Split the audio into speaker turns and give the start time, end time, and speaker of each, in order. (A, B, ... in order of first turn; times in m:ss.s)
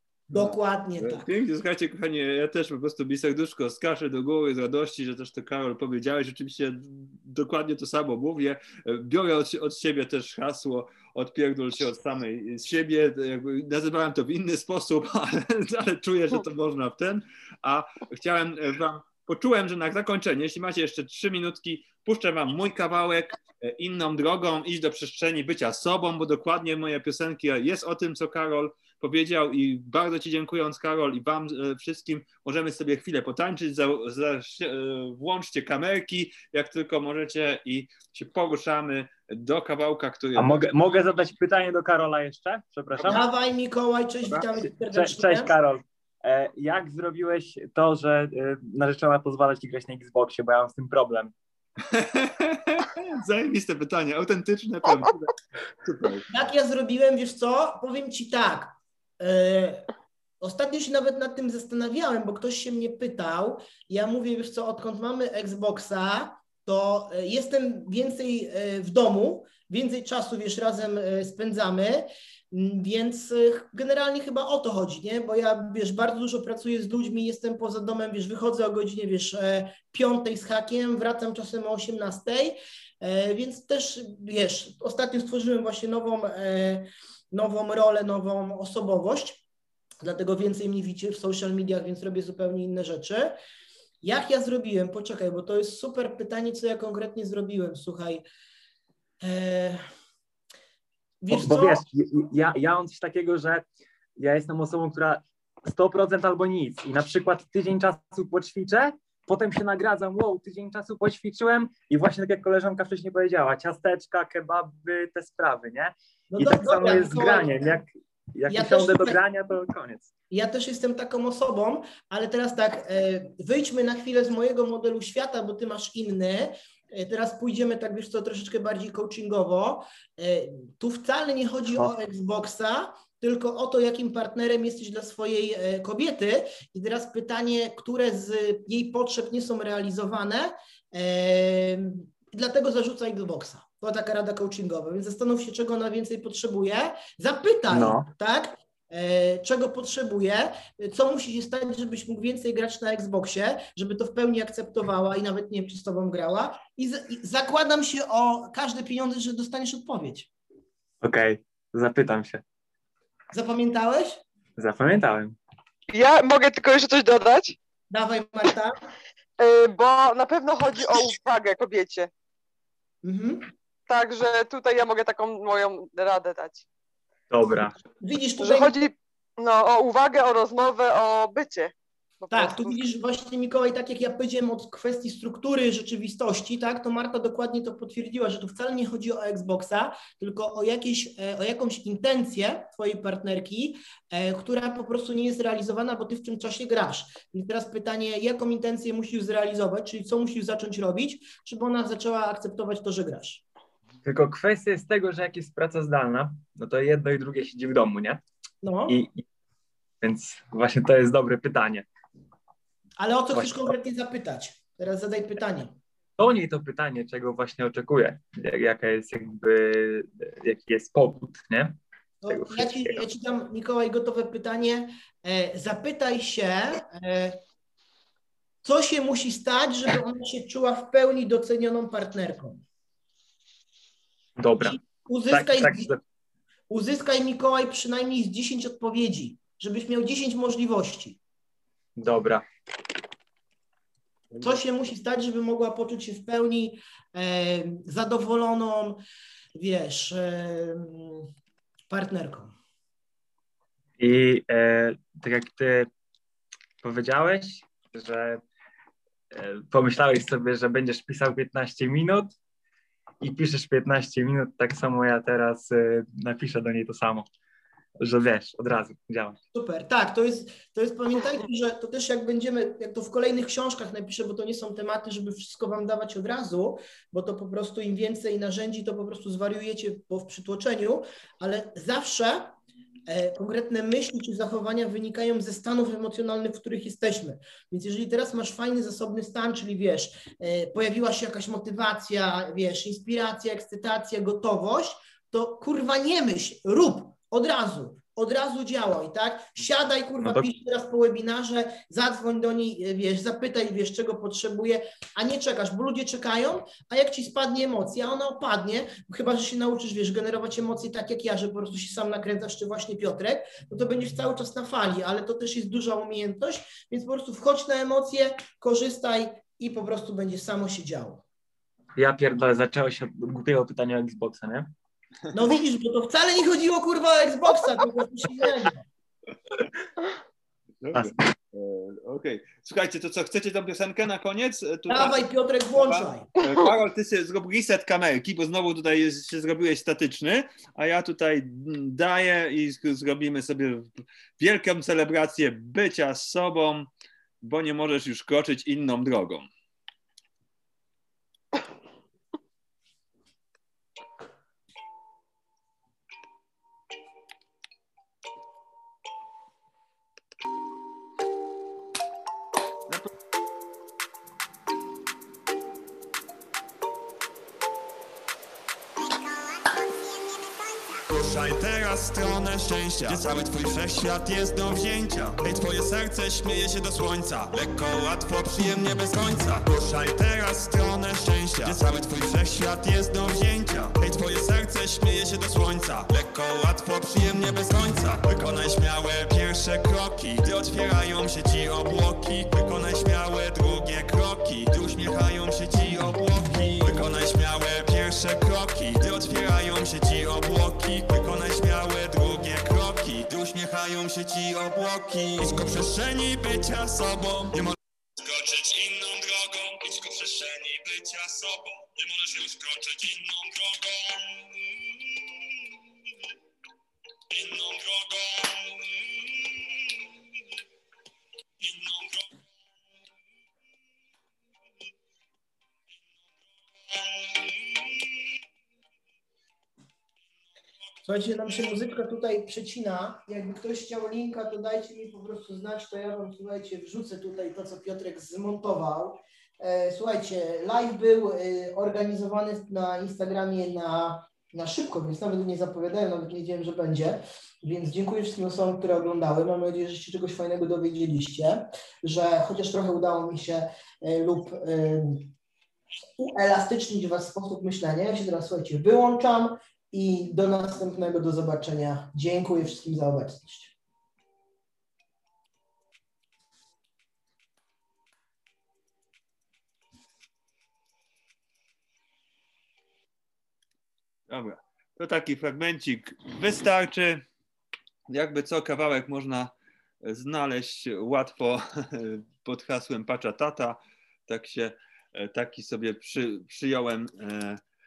0:00.3-0:40.7 A
0:00.3-0:01.3 B
0:40.4-0:43.2 C
0:43.0-0:43.2 A
0:43.1-0:45.5 B
0:44.9-0:51.3 C
0:51.9-0:56.3 A
0:56.3-0:59.9 B
1:00.4-1:29.4 B
1:30.0-1:33.4 B
1:34.0-1:38.2 B
1:39.2-1:39.8 B
1:41.2-1:41.8 B
1:41.3-1:43.6 C
1:44.2-2:00.1 C
1:56.3-1:57.8 B
1:58.5-1:59.2 B
2:00.3-2:40.3 B
2:27.7-2:28.1 C
2:41.0-2:42.4 C
2:43.3-2:44.2 B
2:44.6-2:45.3 C
2:45.9-2:47.6 D
2:47.9-2:48.8 B
2:49.4-2:52.1 D
2:53.0-2:53.5 B
2:53.9-2:56.6 D
2:57.3-2:57.8 C
2:58.0-2:58.7 B
2:58.4-3:02.8 D
3:02.3-3:23.4 B
3:24.0-3:28.2 C
3:28.6-3:29.0 B
3:28.9-3:29.2 C
3:30.0-3:31.8 C
3:33.0-3:35.8 B
3:33.3-3:33.7 C
3:36.2-3:41.8 C
3:42.2-3:47.4 B
3:42.3-3:43.0 C
3:48.6-3:52.6 B
3:54.4-3:56.0 C
3:54.6-3:55.9 B
3:56.7-4:01.2 B
4:02.0-4:02.4 C
4:04.4-4:09.0 B
4:09.6-4:11.3 B
4:11.9-4:12.5 B
4:14.0-4:15.9 C
4:16.8-4:18.4 C
4:19.3-4:22.3 C
4:23.2-4:27.3 C
4:28.0-4:29.4 C
4:29.5-4:42.5 B
4:43.1-5:21.2 B
5:22.0-5:24.7 C
5:25.3-5:28.9 B
5:30.8-5:35.2 A
5:30.9-5:31.2 C
5:34.9-5:36.3 B
5:35.8-5:46.9 A
5:47.4-5:49.5 A
6:11.1-6:47.5 E
6:13.0-6:13.6 A
6:21.6-6:21.9 A
6:48.2-6:54.4 E
6:57.3-6:58.9 E
7:01.6-7:02.2 E
7:11.0-7:35.3 B
7:36.2-7:43.7 B
7:54.3-7:57.2 A
7:58.1-8:07.6 A